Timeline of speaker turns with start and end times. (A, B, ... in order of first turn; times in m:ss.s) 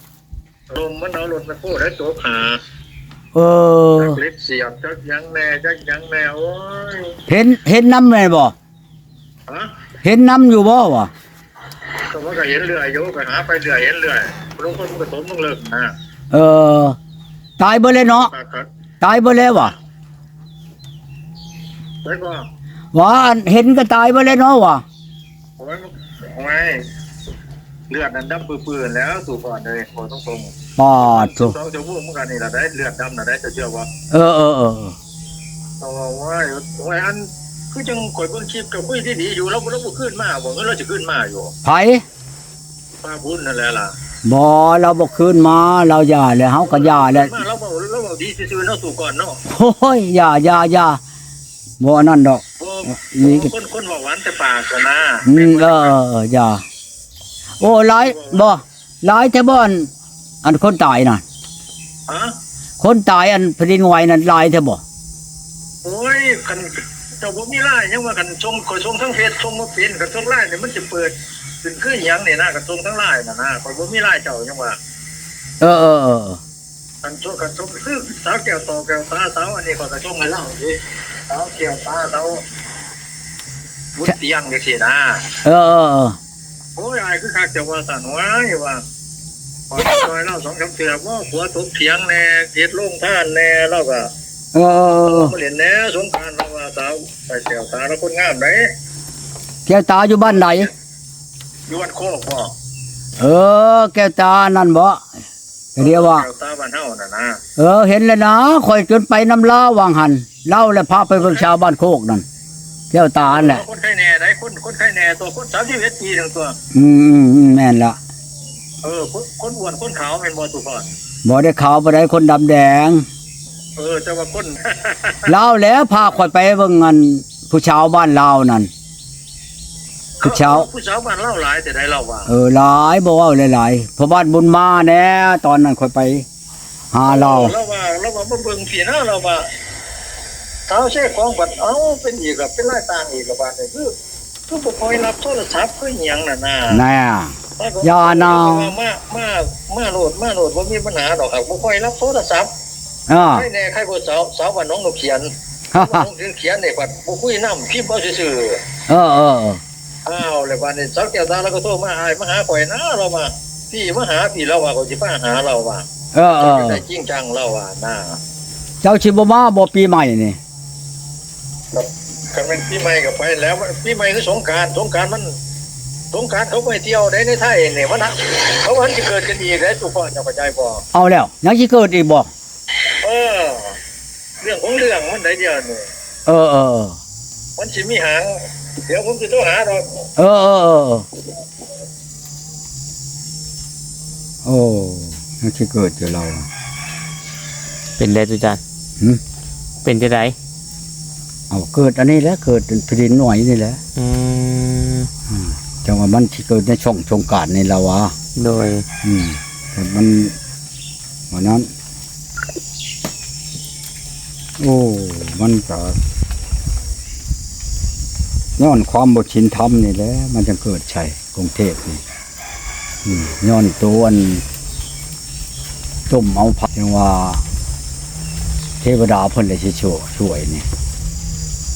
0:00.7-0:02.6 A
0:03.3-0:04.2 B
0:04.1-0:07.1 A
0:07.3-0:08.5 B
0:10.0-0:11.1 B
0:12.1-0:15.9 A
0:16.3-0:17.0 B
0:17.6-0:18.3 B
0:18.2-0:18.7 A
0:19.0-0:19.7 B
0:22.0-0:22.4 A
0:22.9-0:24.8 B
0:25.6-0:26.8 A
0:27.9-0:30.5 A
0:30.8-0:31.6 B
0:31.2-0:33.9 A
0:34.1-0:35.0 B
0:35.8-0:41.5 A
0:41.6-0:42.0 B
0:43.0-0:43.9 A
0:44.2-0:47.4 B
0:46.7-0:49.4 A
0:49.5-0:51.0 B
0:51.8-0:53.5 B
0:52.6-0:55.9 A
0:55.2-0:56.6 B
0:57.6-0:59.9 B
0:58.0-0:58.5 A
1:00.4-1:01.2 B
1:02.1-1:02.3 A
1:02.8-1:04.8 B
1:05.8-1:14.8 A
1:15.6-1:16.4 B
1:17.0-1:22.4 A
1:24.0-1:25.2 A
1:25.4-1:26.2 B
1:26.8-1:28.8 A
1:29.7-1:34.1 A
1:34.5-1:35.3 B
1:35.1-1:38.6 A
1:39.6-1:40.7 B
1:41.7-1:42.5 A
1:43.2-1:45.0 B
1:45.8-1:46.3 B
1:45.8-1:47.4 A
1:47.6-1:52.2 B
1:52.9-1:53.6 B
1:53.2-1:56.6 A
1:56.7-1:58.0 B
1:58.8-2:00.9 A
2:01.2-2:03.0 B
2:03.8-2:05.2 A
2:05.2-2:08.7 B
2:10.2-2:12.3 A
2:10.2-2:10.7 B
2:12.3-2:16.2 B
2:16.9-2:17.5 B
2:17.1-2:19.5 A
2:20.7-2:23.9 A
2:24.5-2:26.8 A
2:26.7-2:28.7 B
2:27.6-2:32.5 A
2:33.1-2:33.5 B
2:33.2-2:38.6 A
2:35.7-2:36.1 B
2:38.9-2:39.6 B
2:40.0-2:48.2 A
2:46.1-2:46.8 B
2:48.8-2:50.4 B
2:51.7-2:55.3 A
2:56.1-3:00.8 A
3:00.9-3:02.3 B
3:03.0-3:03.8 A
3:04.4-3:05.9 A
3:06.3-3:07.0 B
3:07.6-3:10.0 A
3:10.2-3:11.0 B
3:14.4-3:16.5 B
3:18.0-3:18.6 C
3:19.8-3:20.3 C
3:21.5-3:23.8 B
3:24.0-3:25.1 C
3:25.3-3:28.1 B
3:28.4-3:28.8 C
3:29.0-3:30.3 B
3:31.3-3:31.7 B
3:34.6-3:36.0 B
3:38.6-3:42.0 B
3:43.0-3:44.4 B
3:46.1-3:47.4 B
3:48.8-3:50.6 B